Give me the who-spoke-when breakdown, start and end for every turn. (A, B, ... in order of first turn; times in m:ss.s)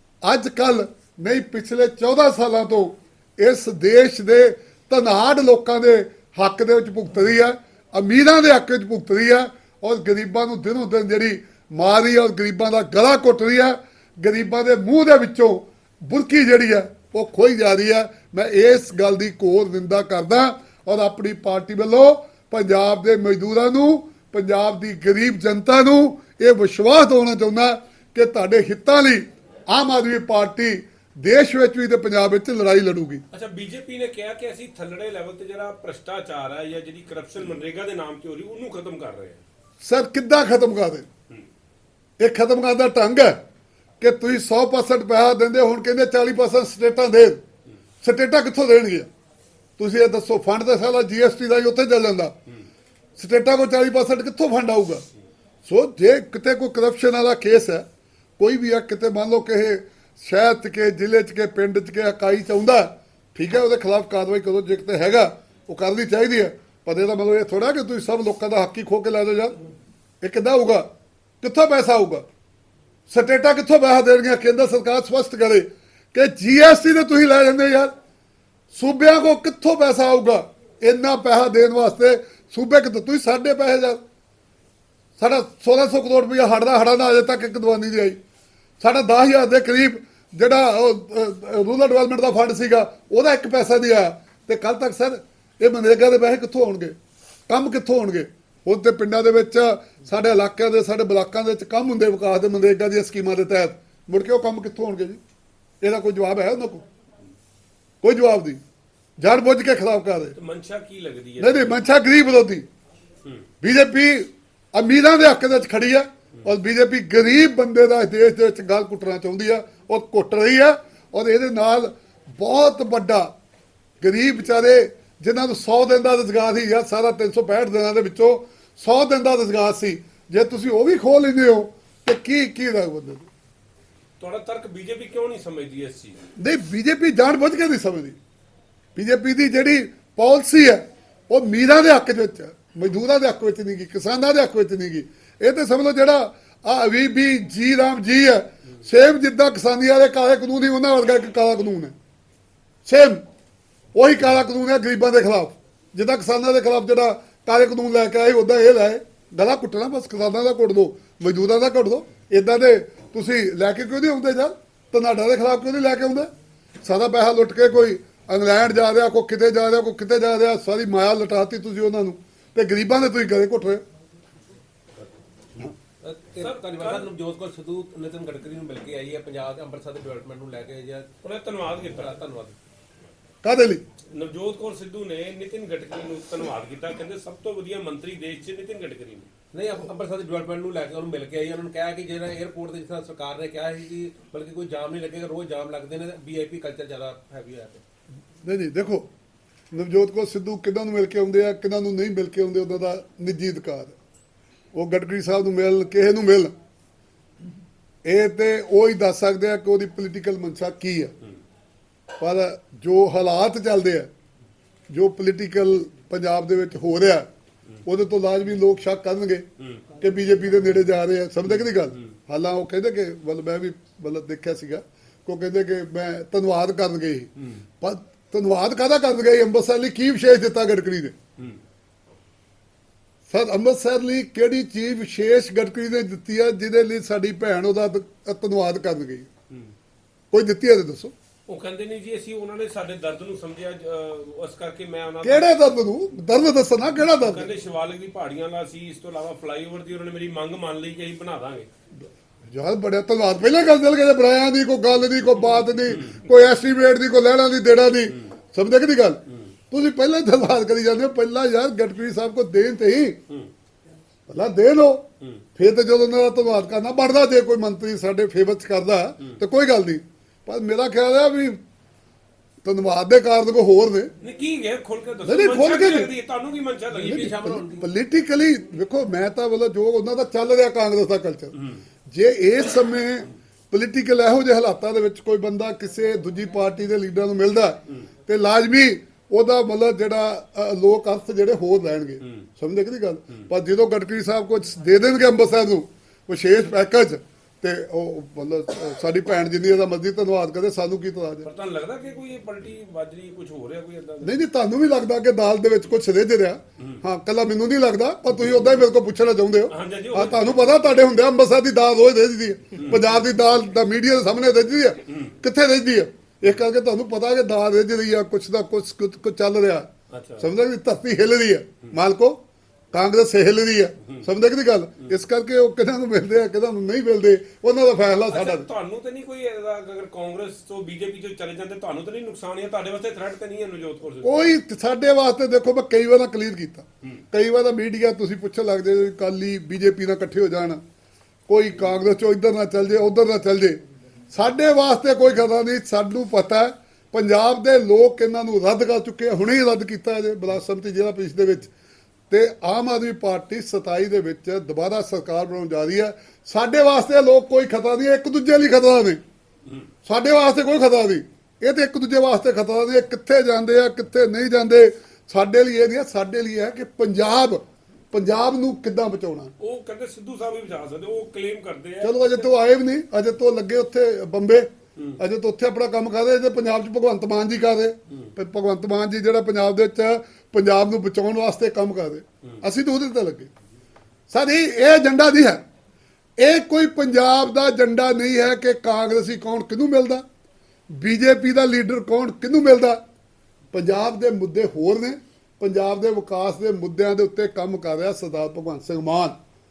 0:00.2-0:33.2 A
0:33.3-0:39.4 B
0:39.8-0:41.1 A
0:42.2-0:43.4 A
0:44.0-0:47.4 A
0:48.0-0:49.1 A
0:49.8-0:52.3 A
0:53.2-0:55.0 A
0:55.6-0:57.8 A
0:58.4-1:09.6 A
1:10.2-1:10.9 A
1:11.4-1:12.2 A
1:13.1-1:17.9 A
1:18.7-1:24.0 A
1:25.2-1:28.2 A
1:28.8-1:37.0 A
1:37.5-1:45.2 A
1:45.8-1:46.8 A
1:48.0-1:48.6 A
1:49.2-1:50.4 A
1:50.4-1:51.7 B
1:51.4-1:52.6 A
1:53.6-2:03.3 A
2:04.0-2:13.3 A
2:14.2-2:16.2 B
2:16.4-2:18.2 A
2:19.0-2:31.9 A
2:32.8-2:33.2 A
2:33.9-2:46.3 A
2:46.8-2:53.8 A
2:56.0-3:01.1 C
2:56.4-2:57.1 B
3:01.2-3:02.1 B
3:01.9-3:02.6 C
3:03.4-3:03.8 A
3:04.1-3:09.3 B
3:09.5-3:17.8 C
3:18.4-3:19.1 A
3:19.7-3:23.9 A
3:24.7-3:26.5 A
3:28.0-3:31.1 A
3:32.2-3:34.1 A
3:34.9-3:37.3 A
3:37.8-3:39.4 A
3:40.0-3:47.3 A
3:47.4-3:47.6 B
3:47.8-3:51.1 A
3:53.3-3:59.3 A
4:00.3-4:01.1 A
4:01.5-4:05.5 B
4:05.2-4:07.5 A
4:07.2-4:11.7 B
4:12.5-4:23.2 A
4:24.3-4:25.0 A
4:25.6-4:31.6 A
4:32.6-4:34.1 A
4:34.2-4:37.3 B
4:35.2-4:36.1 A
4:36.9-4:37.9 C
4:37.4-4:41.6 A
4:42.1-5:01.5 A
5:01.4-5:04.4 B
5:04.2-5:19.9 A
5:09.7-5:10.8 B
5:12.8-5:13.0 B
5:20.1-5:20.4 B
5:20.4-5:22.4 A
5:22.9-5:28.7 A
5:28.3-5:34.4 B
5:34.2-5:40.8 A
5:41.5-5:51.7 A
5:52.3-5:59.2 A
6:00.0-6:09.5 A
6:09.6-6:12.5 B
6:12.0-6:23.5 A
6:24.3-6:25.6 A
6:26.4-6:30.2 A
6:30.9-6:33.0 A
6:33.7-6:39.4 A